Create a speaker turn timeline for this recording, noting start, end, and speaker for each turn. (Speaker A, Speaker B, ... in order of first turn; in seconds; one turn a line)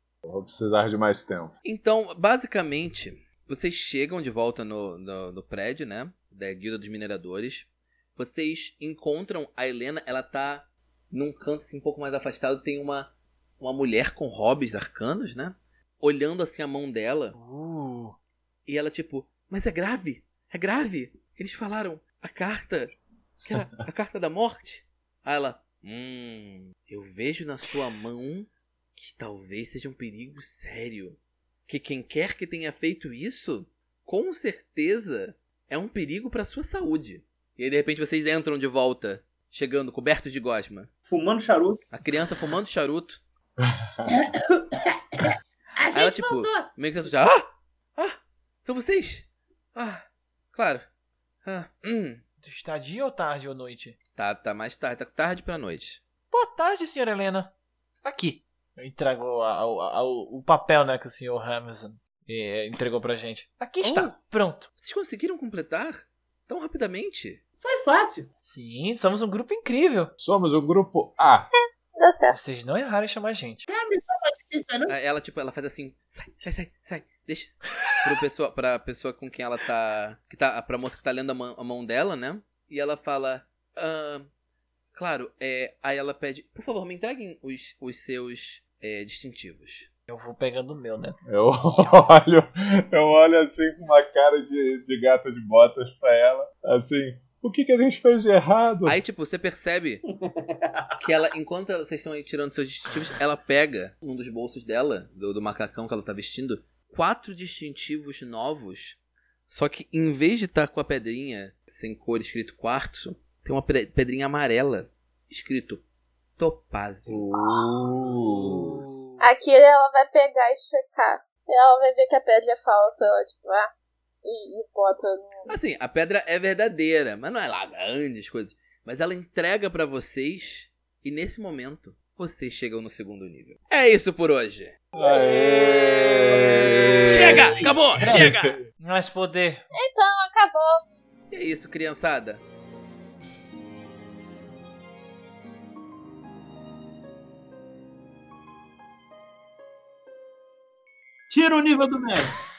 Speaker A: 0.2-1.5
Speaker B: 1.6-17.4
Speaker C: 17.3-18.1
Speaker B: 18.7-40.9
Speaker D: 41.1-41.8
Speaker B: 41.9-43.2
Speaker A: 43.6-44.1
Speaker D: 44.1-46.7
Speaker B: 45.9-50.8
Speaker B: 51.4-52.2
Speaker C: 52.4-54.0
Speaker B: 54.2-56.0
Speaker C: 56.3-57.5
Speaker C: 58.0-64.7
Speaker B: 63.8-64.2
Speaker B: 64.8-67.4
Speaker D: 67.6-68.3
Speaker C: 68.4-70.1
Speaker A: 70.2-71.5
Speaker E: 71.5-72.4
Speaker C: 72.3-73.7
Speaker D: 73.7-74.9
Speaker B: 74.9-84.3
Speaker B: 84.9-89.9
Speaker C: 90.1-91.2
Speaker A: 91.3-99.0
Speaker B: 98.8-100.0
Speaker D: 100.2-100.9
Speaker B: 101.0-109.0
Speaker B: 109.5-115.8
Speaker B: 116.4-117.3
Speaker A: 117.1-118.9
Speaker B: 118.2-119.2
Speaker E: 119.2-123.7
Speaker E: 124.2-125.5
Speaker B: 125.5-134.8
Speaker A: 134.9-138.6
Speaker C: 135.1-139.7
Speaker B: 137.1-138.5
Speaker E: 139.7-140.8
Speaker B: 141.3-142.4
Speaker D: 151.3-152.3